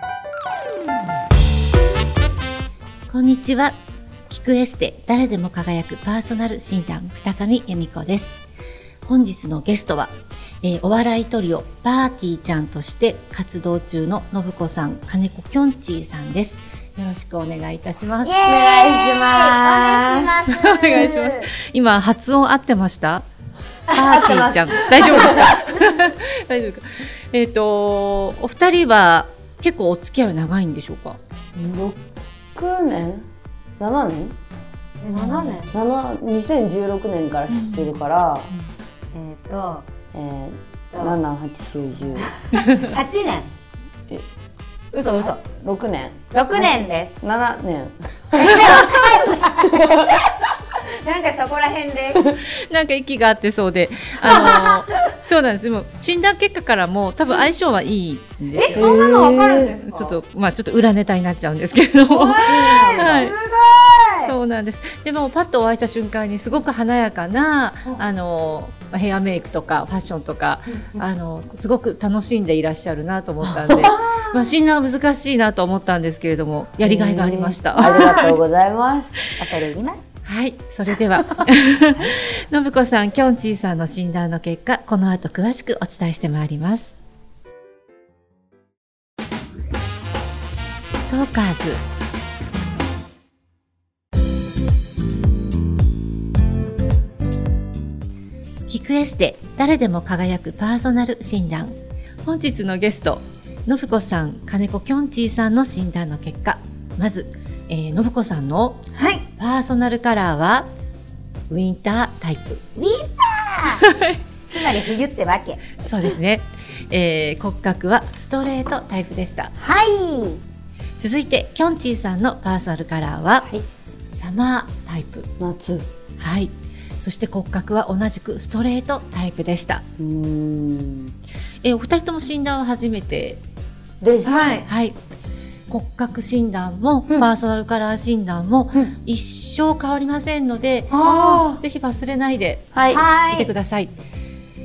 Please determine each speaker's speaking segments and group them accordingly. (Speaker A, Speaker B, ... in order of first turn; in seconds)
Speaker A: 3.1-3.8, 4.3-8.4, 9.1-18.4, 20.5-23.2, 23.9-31.2, 37.5-37.9, 42.5-42.9, 52.4-59.0, 59.9-63.4, 64.2-78.2, 80.2-86.9, 91.1-91.8, 98.7-108.8, 109.4-110.7, 111.5-112.6, 113.7-114.2, 115.8-119.5, 121.0-123.5, 124.1-125.3, 126.2-129.8, 131.6-133.4, 134.6-135.0, 135.7-142.7, 143.3-143.9
Speaker B: 18.2-21.5, 23.9-25.8, 35.0-35.7, 39.1-39.9, 42.2-43.5, 44.9-45.4, 46.3-47.2, 48.3-52.4, 54.2-55.0, 58.5-60.2, 62.1-64.3, 73.8-74.5, 77.8-78.3, 79.4-80.1, 109.0-109.2, 112.8-113.9, 114.5-115.6, 119.6-120.4, 134.2-134.7, 140.9-141.5, 142.9-143.5
Speaker C: 18.4-20.4, 25.1-25.5, 31.6-32.0, 32.5-33.2, 33.8-34.4, 35.1-38.5, 40.1-42.3, 45.0-50.2, 58.8-59.8, 62.4-63.3, 73.5-74.0, 76.8-79.2, 125.4-125.9, 130.0-131.1, 134.0-134.7, 141.1-141.6, 142.7-143.0